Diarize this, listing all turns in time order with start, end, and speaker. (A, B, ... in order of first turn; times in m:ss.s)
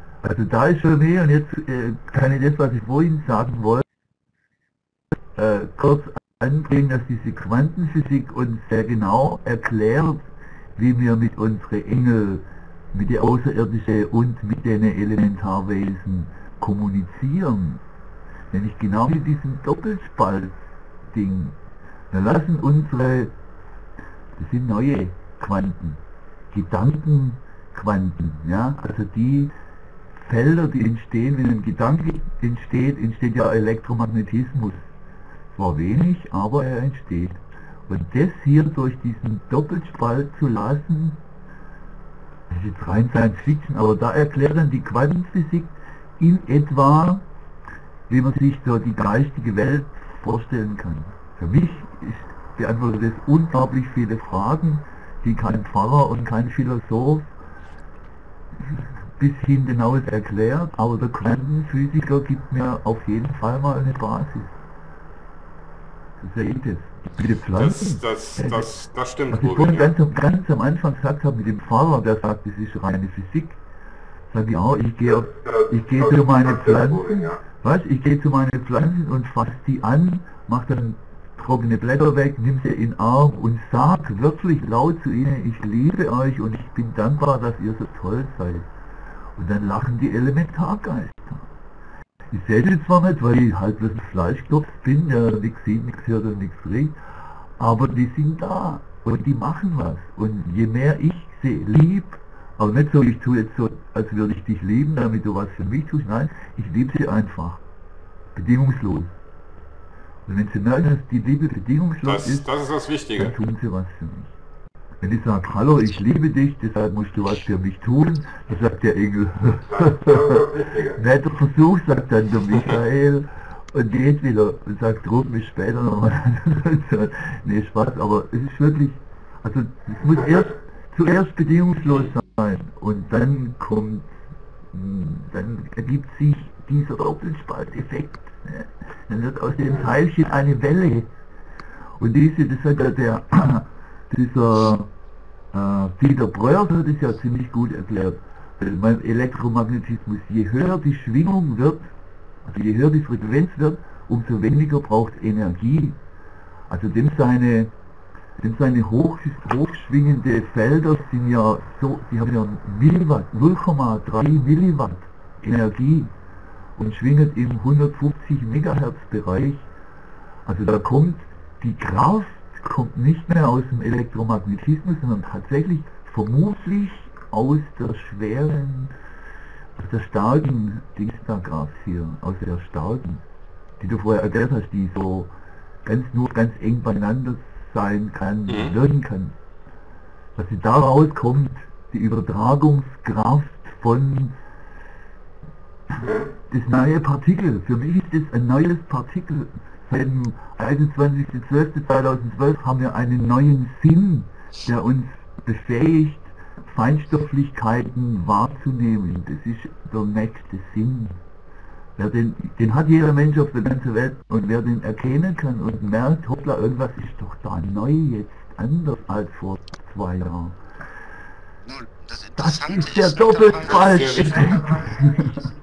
0:00.2-0:03.8 A
0:05.4-0:10.2 A
0:10.8-0:17.8 A
0:18.5-0:20.6 A
0:21.1-0:21.6 A
0:22.1-0:23.3 A
0:24.4-0:26.0 A
0:26.5-0:29.5 A
0:30.2-0:34.8 A
0:35.6-0:41.2 A
0:42.5-0:47.2 A
0:48.1-0:57.3 A
0:58.6-1:04.5 A
1:06.2-1:08.7 A
1:07.5-1:10.0 B
1:09.3-1:13.6 A
1:14.3-1:28.7 A
1:15.3-1:17.4 B
1:29.4-1:31.5 A
1:32.3-1:37.0 A
1:37.6-1:47.6 A
1:48.4-1:49.1 A
1:50.3-1:52.5 A
1:52.0-1:53.4 B
1:53.2-1:54.3 A
1:55.0-2:14.1 A
1:59.7-2:01.0 B
2:14.7-2:21.1 A
2:22.0-2:24.9 A
2:25.5-2:31.9 A
2:32.4-2:36.0 A
2:36.7-2:37.7 A
2:38.4-2:46.1 A
2:46.8-2:49.7 A
2:50.4-2:58.9 A
2:59.8-3:03.2 A
3:03.8-3:05.3 A
3:05.8-3:09.4 A
3:08.5-3:08.8 B
3:10.4-3:14.4 A
3:16.0-3:31.2 A
3:32.0-3:40.6 A
3:41.6-3:44.3 C
3:42.4-3:45.4 A
3:43.6-3:44.8 B